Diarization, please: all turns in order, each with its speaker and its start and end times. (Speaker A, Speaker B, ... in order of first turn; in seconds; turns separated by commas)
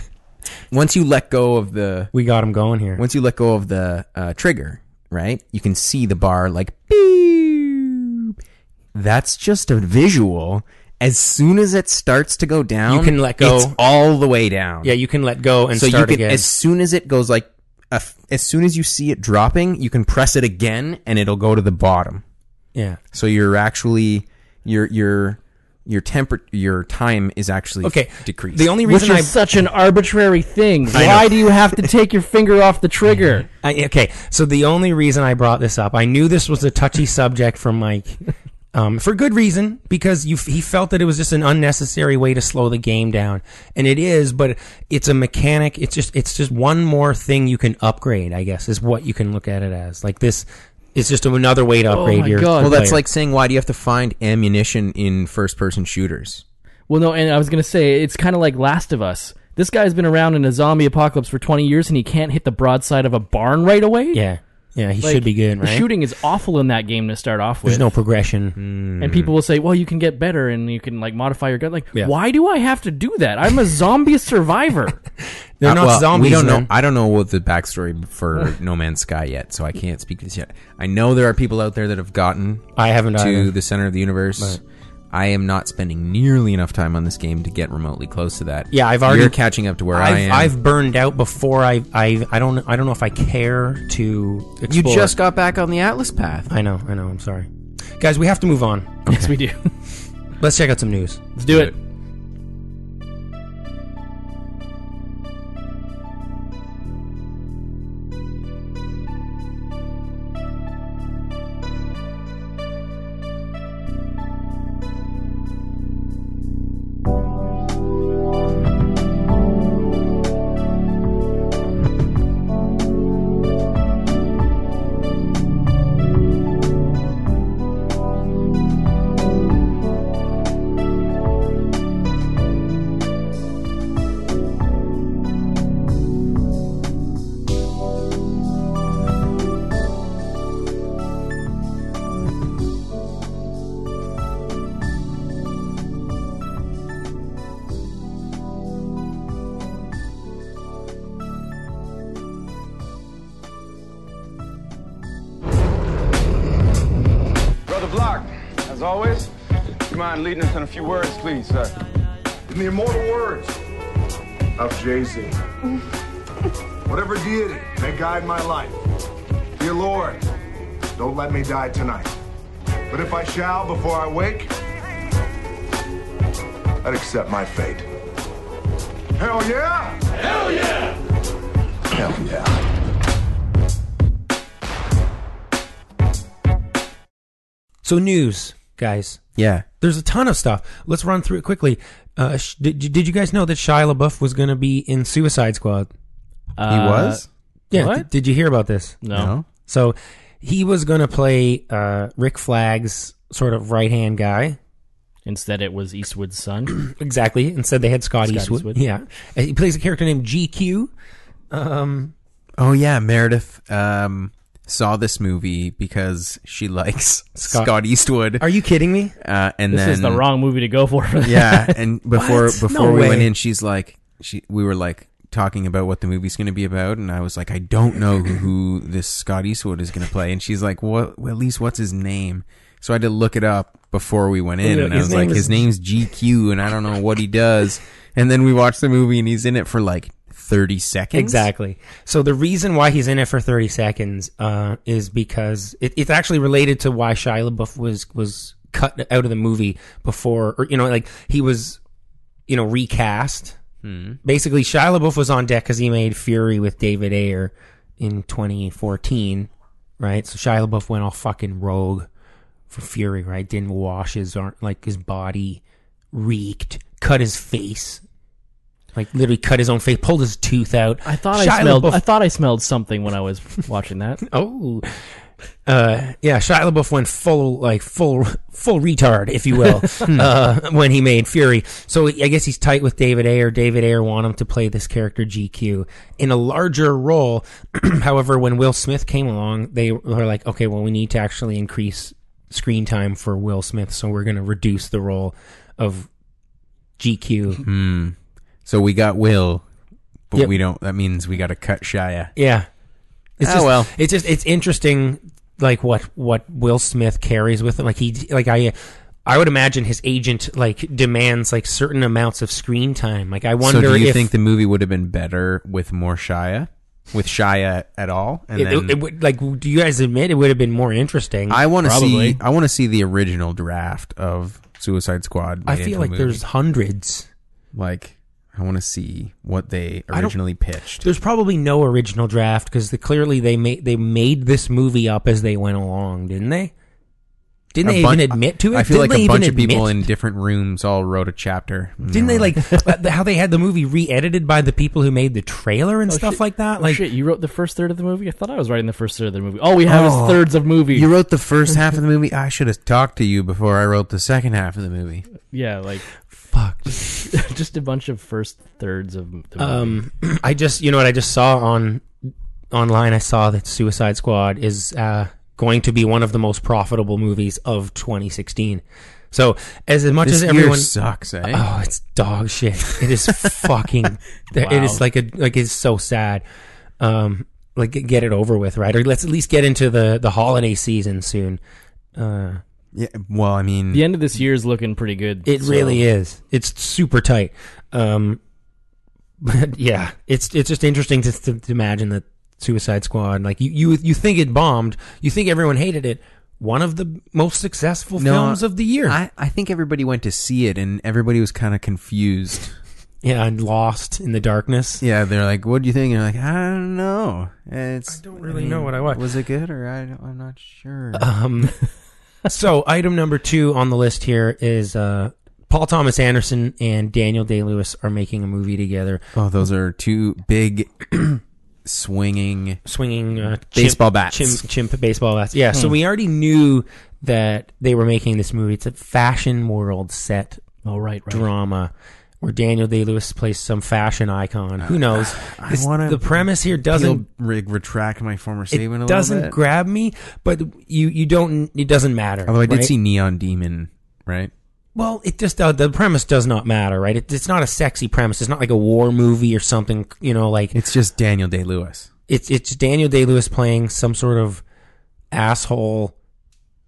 Speaker A: 0.7-2.1, Speaker B: 2.1-3.0, Speaker A: 3.0-8.3, Speaker A: 8.9-14.9, Speaker B: 12.8-13.8, Speaker B: 14.8-16.5, Speaker A: 15.7-22.2, Speaker B: 22.7-23.0, Speaker A: 23.1-28.7, Speaker B: 27.8-29.4, Speaker C: 28.9-33.5, Speaker A: 30.9-31.3, Speaker B: 30.9-31.2, Speaker B: 33.6-38.2, Speaker B: 38.7-53.0, Speaker C: 51.9-52.9, Speaker A: 52.6-56.4, Speaker C: 56.9-64.2, Speaker B: 64.1-65.8, Speaker C: 65.0-67.9, Speaker B: 67.6-68.6, Speaker A: 68.6-69.3, Speaker C: 69.0-75.0, Speaker B: 75.6-76.7, Speaker A: 75.6-84.6, Speaker B: 82.8-83.5, Speaker A: 85.1-90.5, Speaker B: 88.7-89.4, Speaker B: 89.9-95.1, Speaker A: 94.7-96.5, Speaker B: 96.5-99.0, Speaker C: 99.1-99.7, Speaker B: 100.4-101.2, Speaker C: 101.4-101.7, Speaker A: 101.5-101.7, Speaker D: 157.7-159.3, Speaker D: 159.8-161.7, Speaker E: 162.5-163.6, Speaker E: 164.6-165.4, Speaker E: 166.8-168.8, Speaker E: 169.6-170.3, Speaker E: 170.9-172.1, Speaker E: 172.9-174.5, Speaker E: 176.8-177.9, Speaker E: 179.2-180.8, Speaker E: 181.9-182.6, Speaker B: 187.8-189.2, Speaker A: 189.4-189.7, Speaker B: 189.8-195.9, Speaker C: 196.6-198.1, Speaker A: 196.7-197.3, Speaker B: 197.7-199.0, Speaker C: 199.0-199.3, Speaker A: 199.1-199.4, Speaker B: 199.7-204.6, Speaker C: 205.2-206.7, Speaker B: 206.7-210.9, Speaker C: 208.2-208.8, Speaker B: 211.5-212.1, Speaker A: 212.6-218.5, Speaker B: 217.4-217.7, Speaker B: 218.4-219.1, Speaker A: 219.2-220.2, Speaker C: 219.7-221.7, Speaker A: 221.2-241.4, Speaker B: 222.1-223.3, Speaker B: 234.6-235.6, Speaker B: 241.1-251.8, Speaker B: 252.5-253.6, Speaker A: 253.8-254.2, Speaker B: 254.2-262.1, Speaker B: 262.7-265.6, Speaker B: 266.1-268.0, Speaker B: 268.9-272.0, Speaker C: 271.0-274.2, Speaker B: 274.3-275.0, Speaker B: 275.6-296.1, Speaker B: 297.0-297.6, Speaker A: 297.6-299.6, Speaker A: 300.3-302.3, Speaker B: 302.4-302.7, Speaker B: 303.4-314.3, Speaker A: 303.4-303.9, Speaker A: 313.6-319.0, Speaker B: 318.5-321.6, Speaker A: 321.5-326.4, Speaker C: 321.8-322.4, Speaker B: 325.6-327.3, Speaker A: 327.7-331.0, Speaker B: 331.0-336.7, Speaker B: 337.7-340.0, Speaker A: 337.8-342.6, Speaker B: 342.1-347.0, Speaker C: 346.1-351.1, Speaker A: 349.9-355.2, Speaker C: 355.5-356.1, Speaker B: 356.5-357.2, Speaker C: 357.1-360.0, Speaker B: 359.6-362.1, Speaker B: 362.7-370.9, Speaker A: 370.2-371.6, Speaker B: 371.5-376.4, Speaker C: 374.6-375.0, Speaker B: 377.0-381.6, Speaker B: 382.1-382.6, Speaker A: 382.9-384.1, Speaker C: 383.9-386.0, Speaker B: 385.4-388.4, Speaker B: 389.4-399.2, Speaker A: 398.2-402.8, Speaker B: 403.2-405.0, Speaker A: 405.0-411.3, Speaker B: 408.1-409.2, Speaker B: 411.1-411.7, Speaker B: 412.4-419.2, Speaker A: 419.4-422.8, Speaker B: 422.8-430.6, Speaker A: 423.7-424.6, Speaker C: 430.8-431.4, Speaker B: 431.3-437.2, Speaker A: 434.8-439.6, Speaker B: 438.7-442.9, Speaker A: 442.4-444.5, Speaker B: 444.9-450.8, Speaker A: 450.7-452.1, Speaker B: 452.3-454.6, Speaker B: 455.3-456.1